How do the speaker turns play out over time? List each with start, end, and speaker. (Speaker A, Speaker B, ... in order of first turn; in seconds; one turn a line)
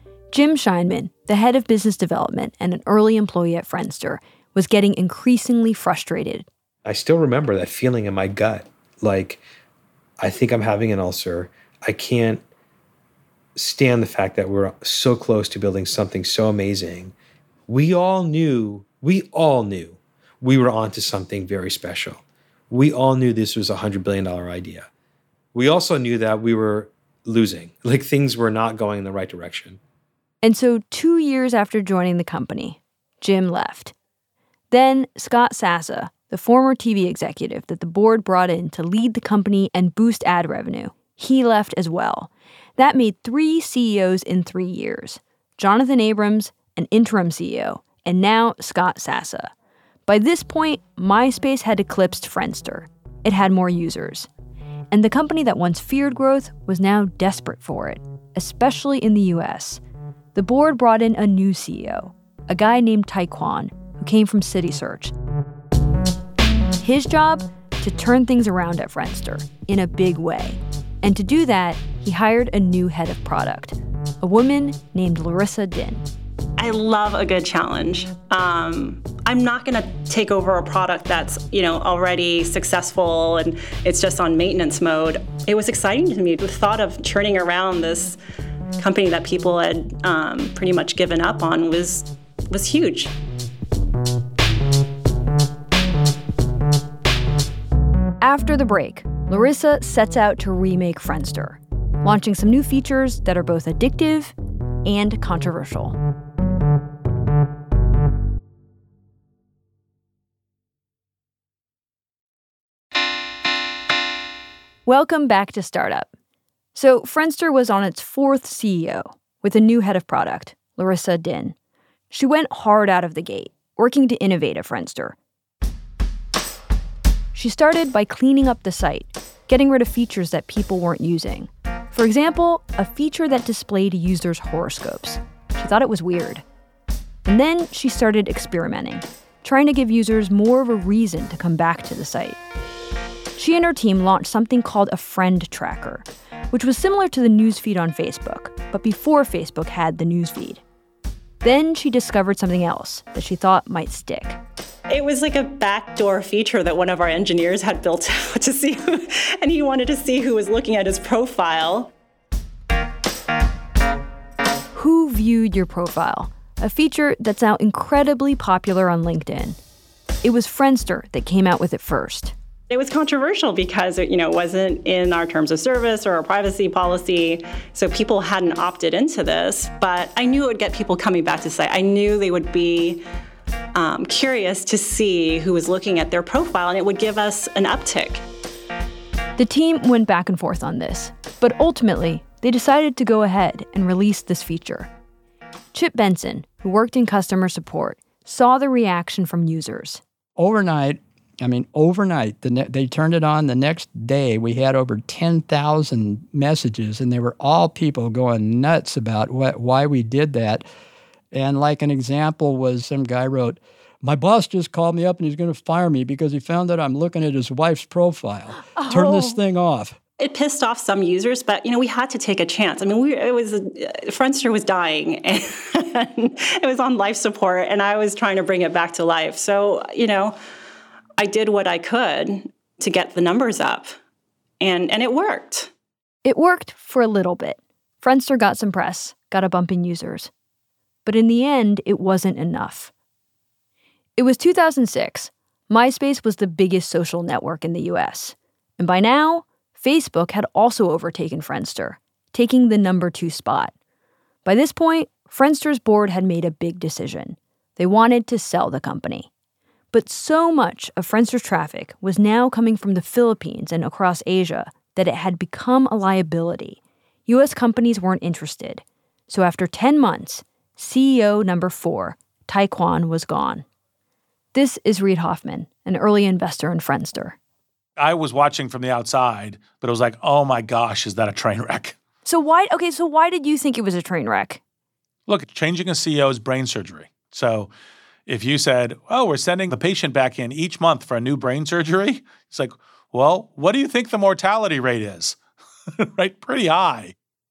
Speaker A: 0.3-6.5
Speaker B: 6.8-9.4
Speaker B: 10.2-12.4
Speaker B: 13.6-17.1
Speaker B: 17.7-24.9
Speaker B: 25.5-29.8
Speaker A: 30.4-33.9
Speaker A: 34.7-49.5
Speaker A: 50.1-54.3
Speaker A: 54.9-59.8
Speaker A: 60.4-65.1
Speaker A: 66.8-76.0
Speaker C: 76.6-88.2
Speaker C: 88.8-93.1
Speaker A: 98.2-106.0
Speaker A: 114.9-116.1
Speaker A: 116.7-121.5
Speaker A: 122.1-125.2
Speaker A: 127.3-136.4
Speaker A: 137.3-142.4
Speaker A: 143.4-150.6
Speaker A: 151.4-154.4
Speaker C: 154.9-161.9
Speaker A: 164.8-169.6
Speaker A: 170.2-172.3
Speaker C: 172.7-183.0
Speaker C: 183.8-188.2
Speaker A: 189.4-194.9
Speaker A: 195.7-200.0
Speaker D: 200.4-210.7
Speaker D: 211.3-220.0
Speaker A: 218.8-219.4
Speaker C: 220.2-230.3
Speaker C: 231.2-234.0
Speaker C: 234.6-235.7
Speaker A: 236.2-240.3
Speaker A: 241.1-242.9
Speaker A: 244.2-253.7
Speaker A: 254.4-259.3
Speaker A: 259.9-273.6
Speaker A: 274.5-277.4
Speaker E: 278.0-282.0
Speaker A: 282.2-284.6
Speaker E: 285.3-287.7
Speaker E: 288.3-295.4
Speaker E: 296.0-297.1